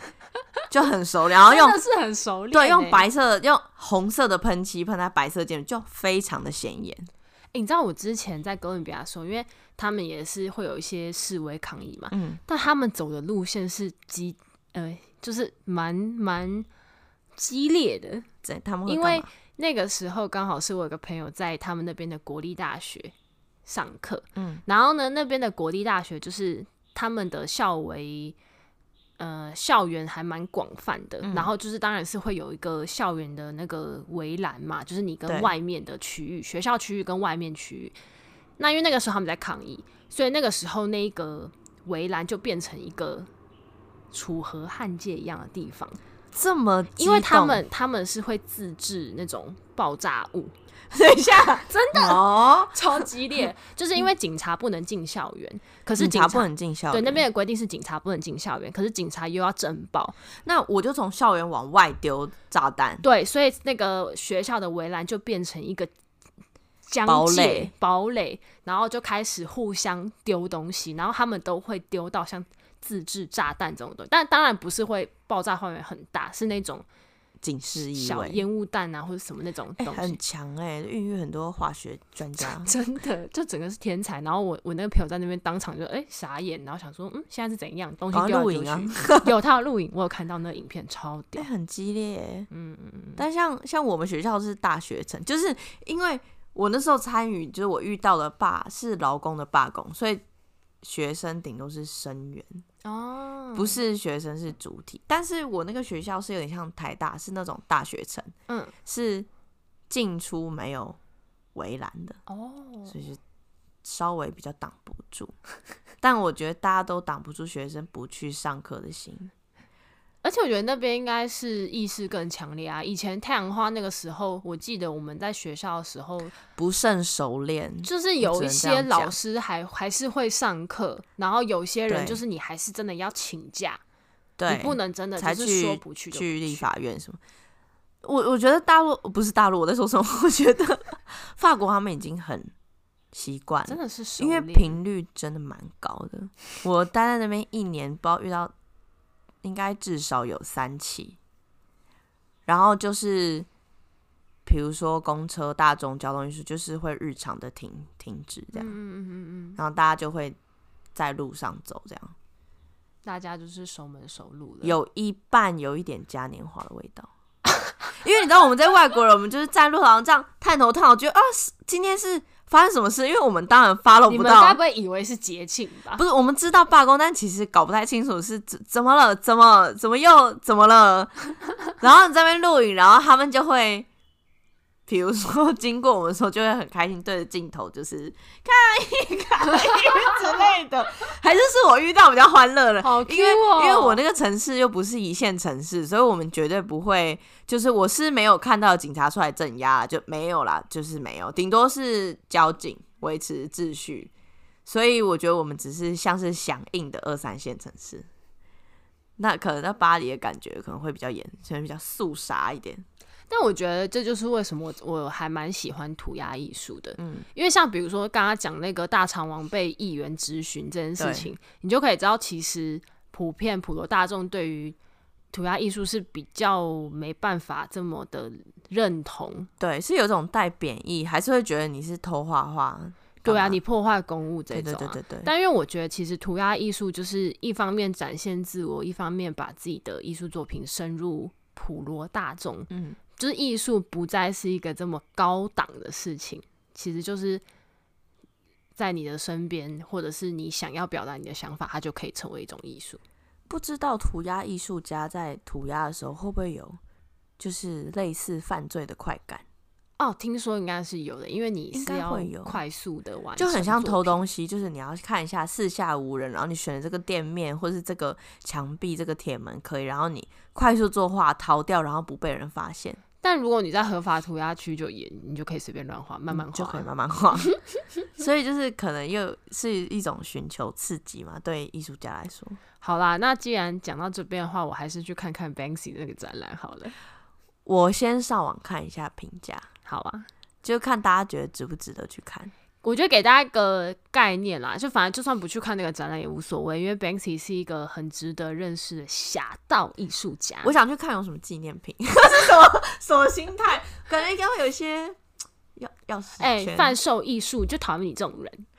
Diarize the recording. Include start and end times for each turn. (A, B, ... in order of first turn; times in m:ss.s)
0:00.7-0:01.8 A
0:01.4-0:03.0 B
0:02.5-0:07.1 A
0:07.5-0:16.7 B
0:12.1-0:12.4 A
0:17.4-0:18.3 B
0:18.4-0:19.3 A
0:18.9-0:23.1 B
0:23.7-0:28.4 B
0:24.4-0:24.6 A
0:29.2-0:38.0 B
0:31.2-0:31.5 A
0:35.3-0:35.5 A
0:38.6-0:43.3 B
0:44.1-0:46.0 B
0:46.3-0:47.6 A
0:47.0-0:50.5 B
0:50.9-0:53.1 A
0:51.7-1:00.2 B
0:56.0-0:57.2 A
1:00.4-1:03.0 A
1:03.0-1:05.9 B
1:06.9-1:16.9 B
1:07.1-1:07.7 A
1:17.4-1:18.4 A
1:17.9-1:20.2 B
1:19.8-1:22.7 A
1:22.4-1:31.5 B
1:28.1-1:29.3 A
1:31.4-1:32.5 A
1:32.5-1:33.2 B
1:33.2-1:40.2 A
1:40.8-1:42.6 A
1:42.8-1:43.8 B
1:43.6-1:48.3 A
1:48.5-1:48.7 B
1:48.8-1:49.3 A
1:49.9-1:51.0 A
1:51.6-1:52.2 A
1:52.3-1:53.0 B
1:52.9-1:53.2 A
1:53.8-1:55.3 A
1:56.0-1:59.3 A
2:00.2-2:06.4 B
2:06.6-2:09.2 A
2:07.8-2:13.8 B
2:11.9-2:12.2 A
2:14.4-2:17.2 A
2:14.5-2:16.6 B
2:18.0-2:22.5 A
2:23.1-2:28.5 A
2:23.7-2:24.8 B
2:29.4-2:31.2 A
2:32.5-2:33.5 A
2:34.5-2:38.8 A
2:38.5-2:39.6 B
2:39.6-2:40.4 A
2:41.0-2:42.2 A
2:43.0-2:44.8 B
2:44.6-2:47.1 A
2:48.0-2:54.6 A
2:54.1-2:56.0 B
2:56.0-3:03.9 A
3:04.9-3:24.1 A
3:12.8-3:14.0 B
3:24.7-3:28.1 A
3:29.2-3:32.8 A
3:33.3-3:44.8 B
3:37.0-3:37.3 A
3:41.0-3:41.3 A
3:45.3-3:49.5 B
3:49.6-3:53.6 A
3:53.2-4:07.4 B
3:54.5-3:55.3 A
4:02.7-4:03.0 A
4:08.8-4:13.0 B
4:13.5-4:16.8 A
4:17.4-4:19.4 A
4:20.0-4:24.2 B
4:21.7-4:22.6 A
4:23.4-4:33.0 A
4:33.2-4:36.9 B
4:36.3-4:37.5 A
4:38.2-4:42.6 A
4:42.8-4:47.0 B
4:47.7-4:49.7 A
4:49.9-4:50.3 B
4:50.6-4:52.5 A
4:52.8-5:00.7 B
5:00.6-5:05.2 A
5:05.8-5:07.0 A
5:06.4-5:08.7 B